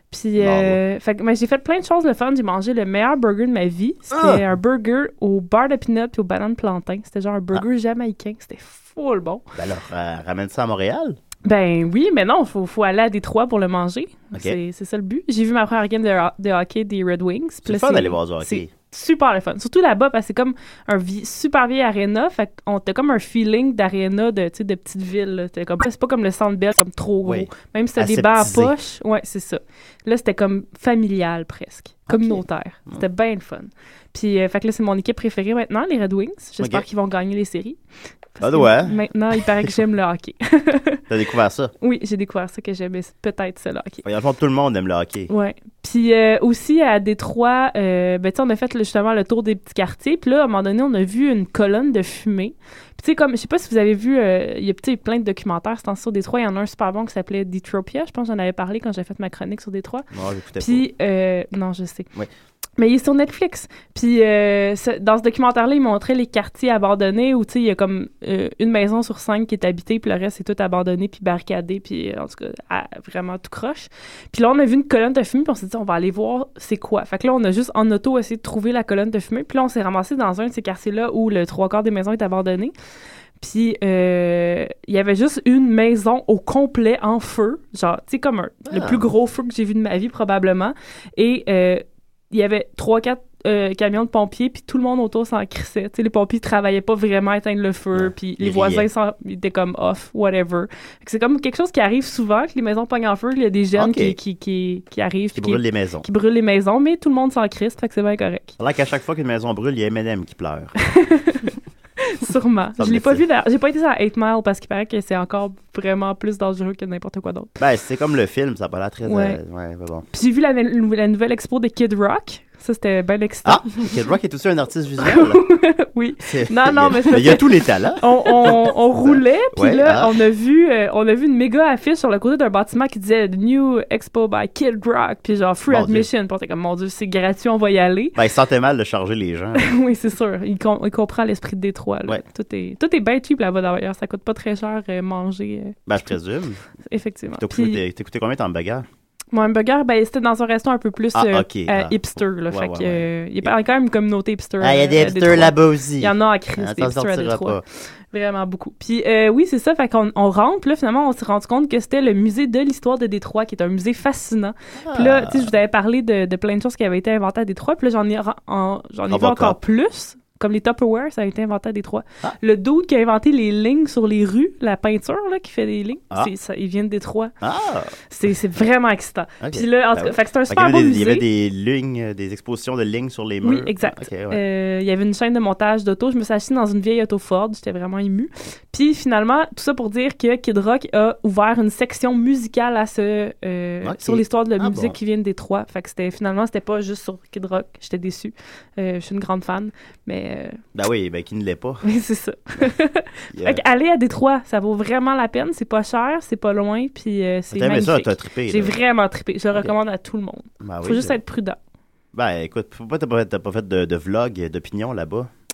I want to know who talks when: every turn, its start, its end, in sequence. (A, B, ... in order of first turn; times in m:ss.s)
0:00.1-0:09.4 A
0:00.4-0:00.8 B
0:04.1-0:04.4 B
0:09.6-0:11.2 B
0:11.4-0:37.8 A
0:17.6-0:18.7 B
0:27.2-0:28.7 B
0:32.1-0:33.0 B
0:36.6-0:36.8 B
0:38.3-0:41.0 A
0:38.4-0:39.7 B
0:41.1-0:41.7 B
0:41.8-0:44.0 A
0:44.0-0:45.3 B
0:45.3-1:00.0 A
1:00.1-1:00.8 B
1:00.6-1:02.1 A
1:02.8-1:22.7 A
1:23.4-1:48.6 A
1:28.6-1:29.0 B
1:37.9-1:38.8 B
1:43.7-1:44.2 B
1:45.3-1:46.0 B
1:48.6-1:50.7 B
1:50.9-1:57.5 A
1:52.8-1:53.2 B
1:57.6-2:00.0 B
1:59.0-1:59.4 A
2:00.1-2:03.9 A
2:03.4-2:05.4 B
2:05.0-2:18.2 A
2:06.2-2:10.2 B
2:15.7-2:16.1 B
2:18.2-2:19.7 B
2:19.6-2:25.8 A
2:25.9-2:26.6 B
2:26.9-2:27.8 A
2:27.4-2:28.8 B
2:29.3-2:37.6 A
2:31.1-2:33.5 B
2:34.6-2:37.6 B
2:38.1-2:57.3 A
2:44.8-2:45.5 B
2:49.1-2:49.6 B
2:57.4-2:57.9 B
2:58.1-3:01.2 A
2:59.4-3:04.4 B
3:03.4-3:20.6 A
3:13.8-3:15.0 B
3:20.7-3:21.8 B
3:21.8-3:31.6 A
3:23.3-3:23.6 B
3:27.5-3:28.8 B
3:30.6-3:31.2 B
3:32.1-3:35.3 B